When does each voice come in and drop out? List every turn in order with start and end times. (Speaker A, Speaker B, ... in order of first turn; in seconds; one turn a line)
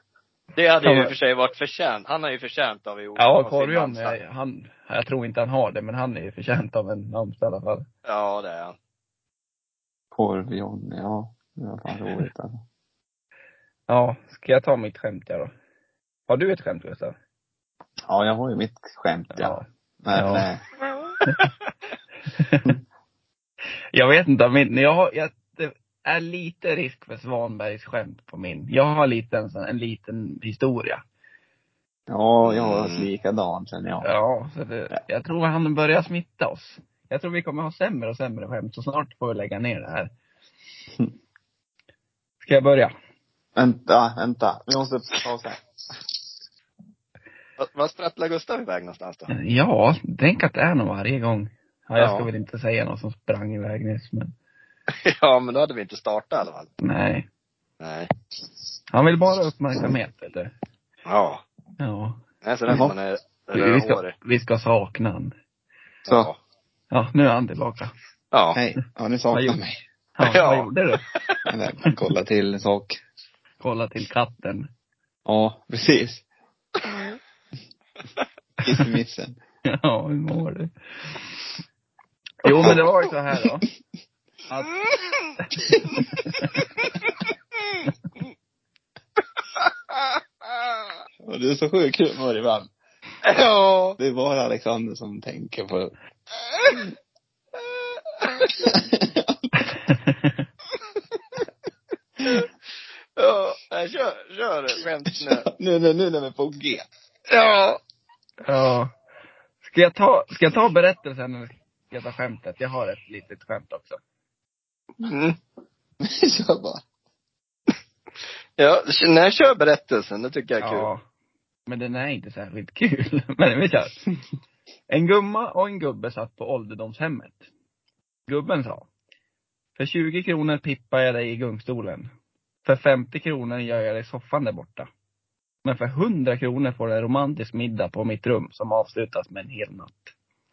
Speaker A: 0.6-4.2
Speaker B: 0.8-1.1
Speaker B: 3.2-7.9
Speaker A: 8.1-8.8
Speaker C: 10.1-12.6
Speaker B: 13.9-15.5
Speaker B: 16.3-17.1
Speaker C: 18.1-20.6
Speaker B: 19.3-20.5
Speaker B: 22.4-22.7
Speaker B: 23.9-31.0
Speaker C: 32.1-34.1
Speaker A: 32.5-33.1
Speaker B: 34.0-40.1
Speaker B: 42.4-42.9
Speaker C: 43.6-45.6
Speaker A: 47.6-49.3
Speaker B: 49.3-54.3
Speaker A: 52.0-52.3
Speaker A: 55.0-56.7
Speaker B: 56.8-57.3
Speaker A: 57.8-58.1
Speaker B: 58.9-60.5
Speaker A: 61.0-61.4
Speaker B: 61.8-62.2
Speaker A: 62.4-64.1
Speaker C: 62.7-63.0
Speaker B: 63.5-65.3
Speaker A: 66.1-66.4
Speaker B: 66.9-67.9
Speaker A: 68.3-68.6
Speaker C: 68.5-69.8
Speaker B: 69.3-69.6
Speaker B: 70.2-71.0
Speaker A: 70.2-71.5
Speaker C: 71.5-73.0
Speaker B: 73.6-74.7
Speaker C: 75.3-76.2
Speaker C: 78.6-79.4
Speaker B: 79.7-81.2
Speaker B: 82.4-83.7
Speaker B: 84.5-84.7
Speaker C: 85.7-86.0
Speaker B: 86.2-86.7
Speaker C: 91.2-92.7
Speaker A: 93.2-94.0
Speaker C: 94.0-95.9
Speaker C: 98.7-99.5
Speaker B: 99.7-100.4
Speaker A: 103.2-105.5
Speaker C: 105.3-106.9
Speaker A: 107.3-107.8
Speaker B: 108.5-108.9
Speaker B: 109.6-114.0
Speaker A: 115.0-115.4
Speaker C: 116.0-116.8
Speaker A: 118.6-120.9
Speaker B: 120.6-121.0
Speaker B: 121.7-124.0
Speaker B: 124.9-127.4
Speaker B: 128.3-128.9
Speaker B: 129.8-132.1
Speaker B: 132.7-134.9
Speaker B: 135.6-140.1